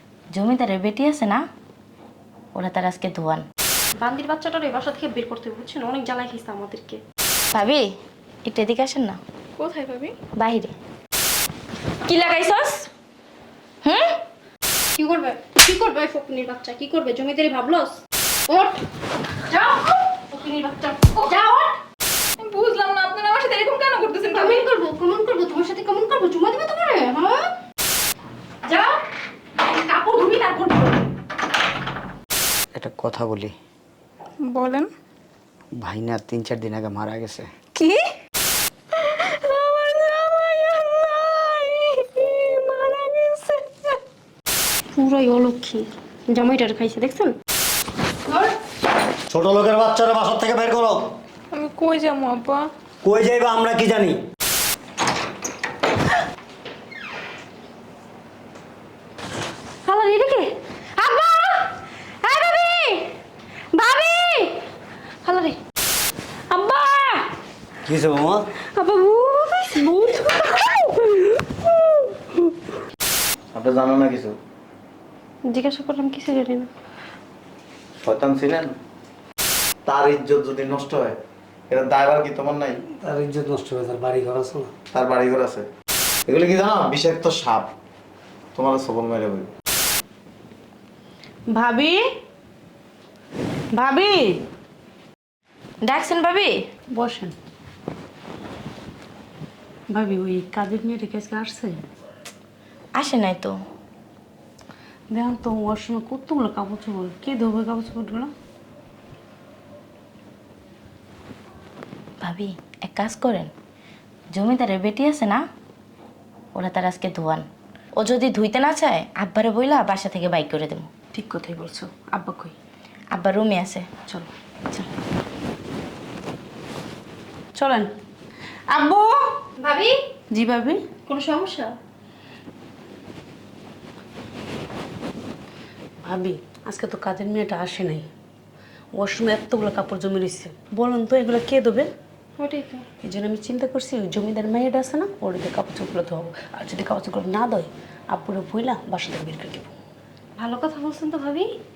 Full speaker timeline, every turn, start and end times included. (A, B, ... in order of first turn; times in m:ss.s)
0:00.3-0:01.4 A
0:02.6-0:03.4 A
0:04.0-0:07.0 B
0:07.5-0:09.2 A
0:09.6-0:10.1 C
0:10.4-0:10.7 A
0:12.0-0:12.9 A
0:13.8-0:14.2 A
0:15.0-0:18.8 B
0:19.5-0:21.8 B
0:22.4-0:24.7 C
0:24.3-0:27.5 B
0:28.6-0:29.0 B
0:29.6-0:31.1 B
0:32.8-0:33.5 D
0:34.5-0:34.9 C
0:35.8-0:37.5 D
0:37.8-0:38.0 C
0:39.0-0:44.0 C
0:45.0-0:47.3 B
0:48.3-0:48.6 B
0:49.3-0:51.0 E
0:51.5-0:52.6 C
0:53.0-0:54.2 E
0:59.9-1:03.2 B
1:03.7-1:04.6 B
1:05.2-1:05.6 B
1:06.6-1:07.2 B
1:07.9-1:08.5 E
1:08.8-1:11.2 B
1:13.5-1:14.4 F
1:15.5-1:16.7 B
1:18.0-1:18.8 F
1:19.8-1:21.2 F
1:21.7-1:22.8 F
1:23.0-1:24.7 E
1:24.9-1:25.6 F
1:26.3-1:27.7 F
1:28.6-1:29.5 F
1:31.5-1:32.0 G
1:33.7-1:34.4 G
1:35.8-1:36.6 A
1:36.9-1:37.4 G
1:39.9-1:41.8 G
1:43.0-1:43.6 A
1:45.1-1:48.3 G
1:52.2-1:53.5 A
1:54.3-1:55.4 A
1:56.6-2:00.9 A
2:01.1-2:02.6 G
2:03.1-2:03.9 A
2:07.6-2:07.9 G
2:08.7-2:09.4 G
2:09.6-2:09.9 B
2:10.3-2:10.8 G
2:11.1-2:11.7 B
2:16.0-2:18.1 G
2:18.9-2:21.9 G
2:22.4-2:22.8 B
2:23.0-2:29.7 G
2:30.4-2:31.5 B